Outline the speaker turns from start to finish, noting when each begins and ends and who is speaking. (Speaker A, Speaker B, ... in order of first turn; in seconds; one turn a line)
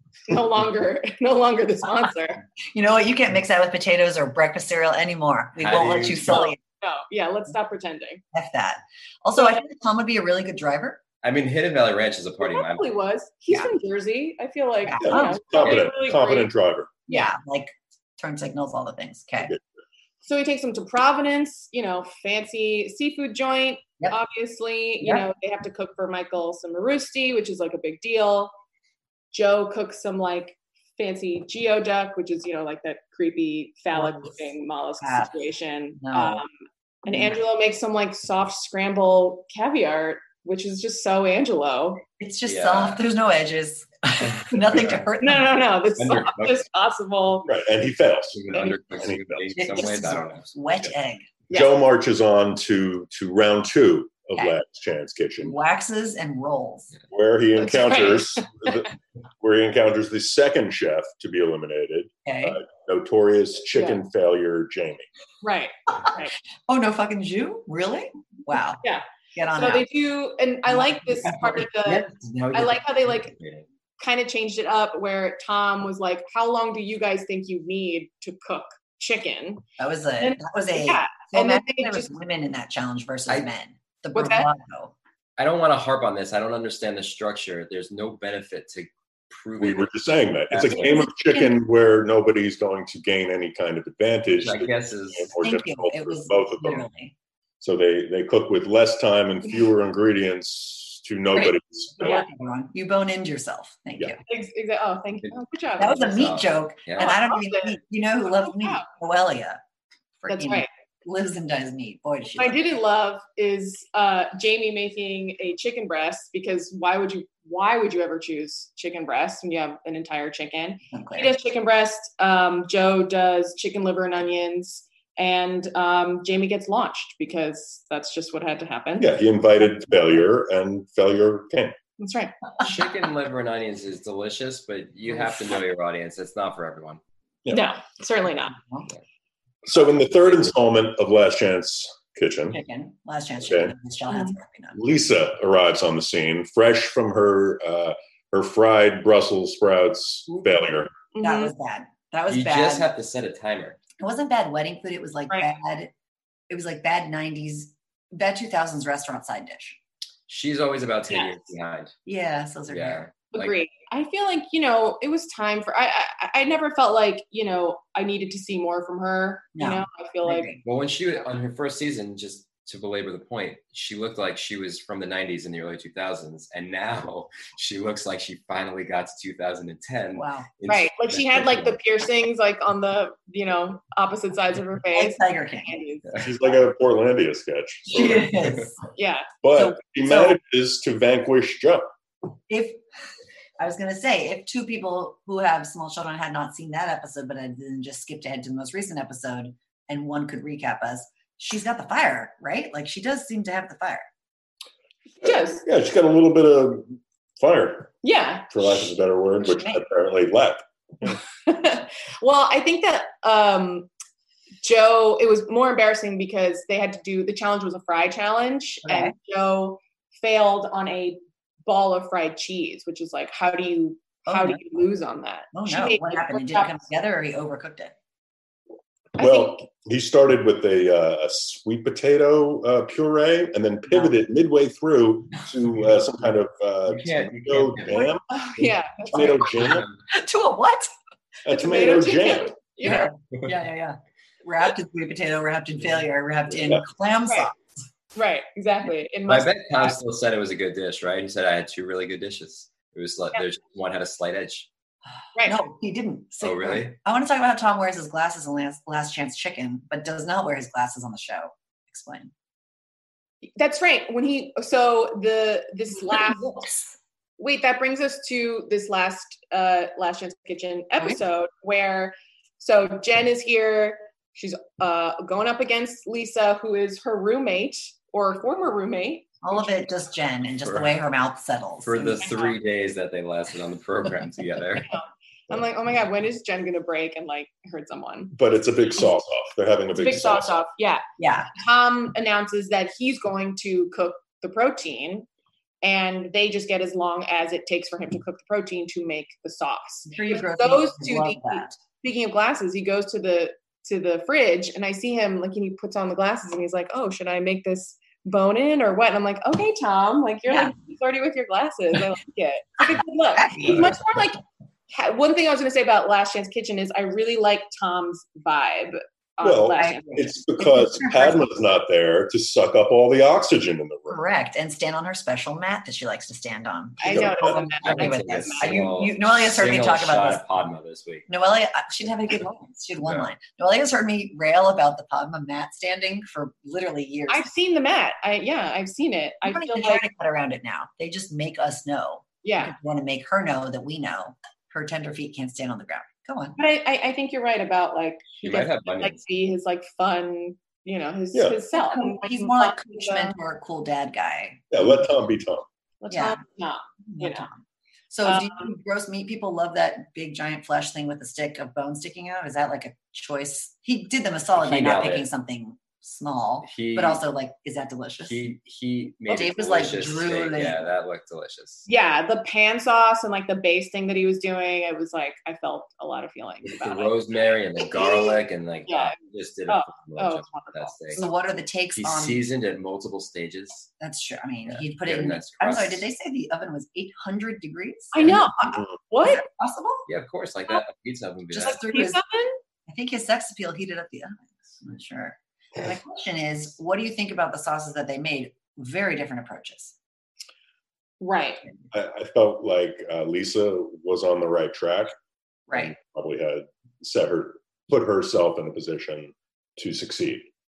Speaker A: 0.3-2.4
Speaker B: 2.7-6.6
Speaker C: 5.6-6.5
Speaker A: 6.3-8.2
Speaker B: 8.3-11.0
Speaker C: 11.2-12.9
Speaker A: 12.4-16.5
Speaker B: 14.8-15.4
Speaker D: 15.0-16.9
Speaker B: 17.1-19.5
Speaker A: 20.2-28.5
Speaker B: 25.0-25.2
Speaker A: 29.3-36.5
Speaker B: 33.9-35.3
Speaker B: 36.0-36.4
Speaker A: 37.0-42.0
Speaker B: 42.2-45.7
Speaker C: 42.5-43.0
Speaker A: 45.2-47.5
Speaker C: 46.0-46.6
Speaker D: 47.5-49.5
Speaker C: 48.3-50.5
Speaker B: 49.5-51.3
Speaker D: 51.5-55.5
Speaker B: 55.4-56.9
Speaker D: 57.1-65.1
Speaker A: 57.6-58.9
Speaker B: 62.2-62.6
Speaker A: 63.7-64.0
Speaker A: 65.4-66.3
Speaker B: 66.7-68.8
Speaker A: 68.8-73.3
Speaker B: 69.3-69.9
Speaker B: 70.7-71.3
Speaker C: 71.2-73.7
Speaker A: 74.0-79.6
Speaker B: 79.8-84.9
Speaker A: 80.2-82.1
Speaker A: 84.1-84.5
Speaker C: 85.4-91.1
Speaker D: 89.6-96.9
Speaker B: 90.8-91.5
Speaker C: 94.4-95.3
Speaker B: 95.4-97.1
Speaker D: 97.6-102.2
Speaker B: 101.3-104.2
Speaker A: 104.3-106.3
Speaker B: 105.8-109.6
Speaker C: 105.9-107.1
Speaker A: 107.0-108.9
Speaker B: 110.2-112.6
Speaker A: 110.3-110.7
Speaker A: 112.4-129.1
Speaker B: 120.9-121.3
Speaker D: 129.0-131.8
Speaker A: 132.0-132.5
Speaker C: 132.6-137.0
Speaker B: 135.1-135.4
Speaker A: 137.5-138.6
Speaker B: 138.5-138.9
Speaker D: 139.7-142.6
Speaker C: 139.8-140.5
Speaker B: 142.5-144.8
Speaker D: 143.4-143.7
Speaker D: 144.7-151.1
Speaker A: 151.1-151.5
Speaker B: 151.2-152.9
Speaker C: 152.3-153.8
Speaker B: 154.0-155.9
Speaker B: 156.5-159.8
Speaker C: 160.3-161.9
Speaker B: 162.1-163.1
Speaker C: 162.7-163.6
Speaker A: 163.3-170.5
Speaker B: 169.6-170.6
Speaker C: 170.6-181.8
Speaker B: 180.1-180.5
Speaker A: 180.7-186.2
Speaker B: 184.9-185.8
Speaker D: 186.2-188.3
Speaker B: 187.9-188.8
Speaker A: 188.9-189.4
Speaker D: 189.4-191.9
Speaker B: 189.6-190.4
Speaker B: 192.5-192.8
Speaker B: 193.6-204.1
Speaker A: 205.2-205.6
Speaker D: 205.2-208.0
Speaker A: 208.0-208.5
Speaker D: 208.5-211.2
Speaker B: 209.4-209.8
Speaker A: 211.1-213.9
Speaker A: 214.6-226.8
Speaker B: 218.8-219.1
Speaker B: 224.3-224.7
Speaker B: 225.5-227.9
Speaker D: 229.2-239.9
Speaker A: 229.2-229.6
Speaker C: 236.9-238.1
Speaker A: 238.3-239.5
Speaker C: 239.6-239.9
Speaker B: 240.1-240.9
Speaker D: 241.4-242.6
Speaker A: 241.5-243.1
Speaker B: 242.8-247.6
Speaker A: 248.1-249.9
Speaker C: 249.3-254.7
Speaker B: 255.4-262.3
Speaker C: 256.4-256.9
Speaker A: 263.6-266.6
Speaker B: 266.4-266.9
Speaker A: 267.4-279.4
Speaker B: 279.4-282.3
Speaker C: 281.8-284.9
Speaker A: 282.3-282.5
Speaker A: 284.9-288.3
Speaker D: 288.3-290.6
Speaker A: 289.9-291.0
Speaker B: 291.2-291.5
Speaker A: 291.6-295.3
Speaker A: 295.8-320.3
Speaker B: 300.1-301.8
Speaker B: 313.4-313.9
Speaker D: 319.4-324.2
Speaker B: 319.8-321.5
Speaker B: 324.1-330.4
Speaker A: 327.0-328.8
Speaker D: 327.1-327.6
Speaker C: 327.8-331.3
Speaker B: 331.3-337.5
Speaker A: 337.3-340.1
Speaker B: 339.4-346.6
Speaker A: 342.4-342.8
Speaker A: 346.6-353.3
Speaker C: 348.4-349.2
Speaker D: 351.3-351.6
Speaker B: 351.7-355.0
Speaker D: 354.7-355.6
Speaker A: 356.0-357.5
Speaker B: 356.1-356.4
Speaker B: 357.1-368.5
Speaker A: 358.2-358.7
Speaker C: 364.6-365.3
Speaker C: 366.6-367.2
Speaker C: 368.2-371.9
Speaker B: 369.3-370.8
Speaker A: 371.9-381.3
Speaker C: 376.6-381.2
Speaker B: 381.1-382.4
Speaker C: 381.9-383.9
Speaker B: 384.0-390.1
Speaker C: 384.7-386.1
Speaker A: 388.1-389.4
Speaker C: 390.1-391.8
Speaker B: 391.6-392.2
Speaker A: 391.6-392.6
Speaker B: 392.9-399.9
Speaker A: 401.2-401.6
Speaker D: 401.9-405.1
Speaker B: 405.7-405.9
Speaker D: 405.7-410.5